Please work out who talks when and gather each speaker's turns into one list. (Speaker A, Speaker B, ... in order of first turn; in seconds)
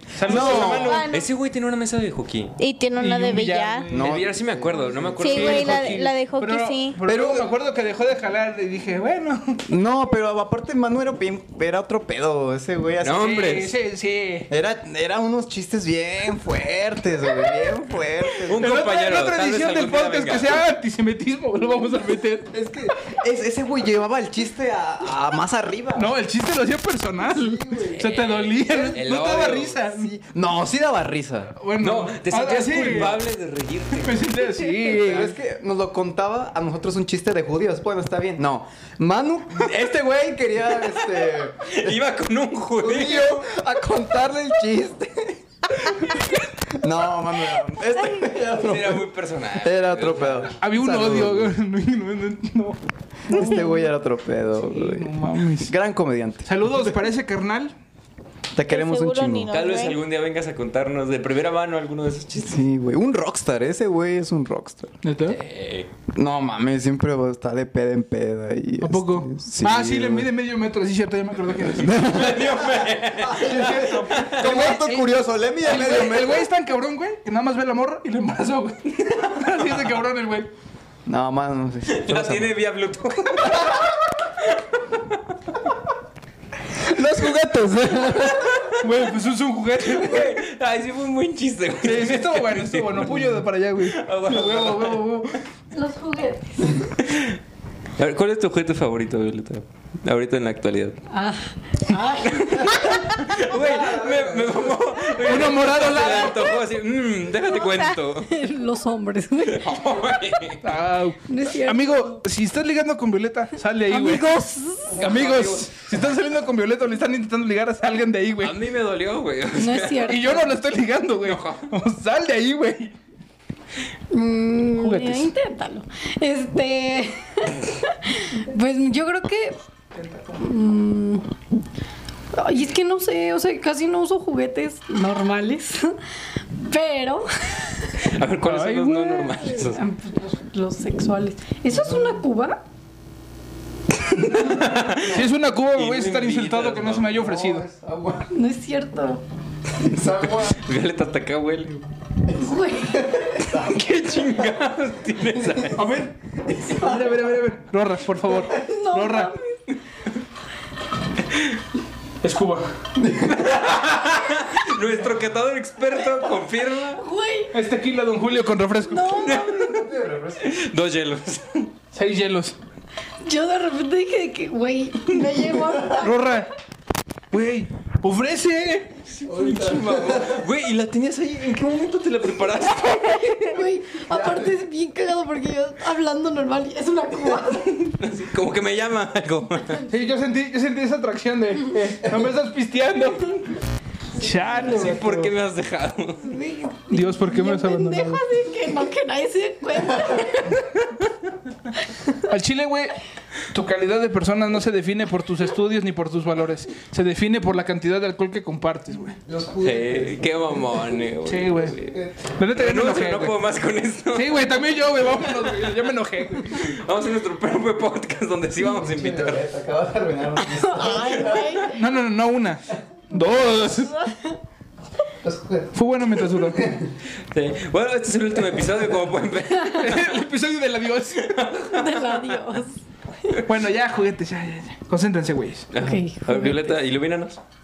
Speaker A: 0.1-1.1, 3.0-4.3, 5.2-9.6, 13.1-14.5, 18.5-22.5, 25.9-30.1, 31.6-33.2, 34.0-35.4, 50.6-53.9, 54.6-55.7, 56.5-57.8, 65.0-65.4, 68.8-72.1, 73.4-80.5, 88.8-90.4, 91.8-95.4, 105.2-106.5, 110.6-114.3, 114.9-118.6, 120.0-123.0, 124.8-125.3, 129.9-130.4, 138.4-139.4, 144.3-147.7, 155.8-159.4, 162.2-162.7, 167.5-169.4, 171.9-172.6, 176.0-176.5, 177.3-179.0, 189.9-193.6, 194.1-195.3, 196.9-198.2, 202.3-203.0, 203.5-209.2, 211.2-211.8, 212.3-213.4, 214.1-216.7, 221.7-224.0, 225.7-226.7, 229.8-231.5, 233.4-235.7
Speaker B: 0.2-1.1, 3.9-5.6, 7.0-7.5, 9.7-13.4, 14.5-18.7, 22.5-26.1, 27.2-28.1, 28.7-31.6, 34.9-42.0, 42.8-46.1, 46.7-51.5, 53.3-56.9, 58.5-59.5, 62.4-65.0, 66.2-70.3, 71.8-76.5, 81.1-82.6, 86.8-88.6, 102.7-105.0, 147.1-148.3, 149.8-150.6, 152.3-153.9, 156.5-157.1, 163.0-163.7, 169.4-170.5, 179.2-180.5, 184.1-184.6, 209.2-211.0, 211.8-212.3, 218.6-221.8, 225.2-225.8, 226.3-226.9
Speaker C: 0.3-1.3, 2.6-3.9, 5.2-7.0, 58.7-60.0
Speaker D: 0.3-2.6, 3.9-6.0, 13.0-13.7, 18.5-20.6, 28.0-29.8, 31.8-34.3, 41.0-43.5, 48.4-50.6, 59.5-62.6, 65.3-65.9, 71.8-74.2, 79.1-79.8, 81.9-83.8, 84.4-85.2, 88.1-88.8, 89.8-95.2, 97.0-97.4, 98.0-101.0, 102.2-108.5, 109.4-110.7, 115.0-115.7, 118.4-120.2, 121.2-121.7, 138.0-139.8, 144.3-147.2, 149.8-151.9, 153.4-155.8, 163.3-167.0, 169.2-169.9, 170.4-171.7, 179.1-183.6, 187.9-189.8, 194.6-196.4, 209.6-212.0, 212.5-214.6, 215.1-215.7, 216.5-219.4, 227.3-230.2, 231.2-232.3, 235.7-237.4
Speaker E: 95.7-96.9, 101.1-102.8, 108.2-109.8, 111.3-112.2, 113.9-115.0, 119.5-120.5, 124.1-129.6, 130.4-131.3, 132.3-136.0, 136.6-138.0, 139.6-142.6, 148.3-149.2, 152.3-153.2, 158.5-159.7, 166.9-167.6, 168.9-169.7, 173.2-176.4, 183.4-187.9, 196.2-200.6, 201.8-202.2, 220.6-221.8, 231.7-233.4, 235.8-236.8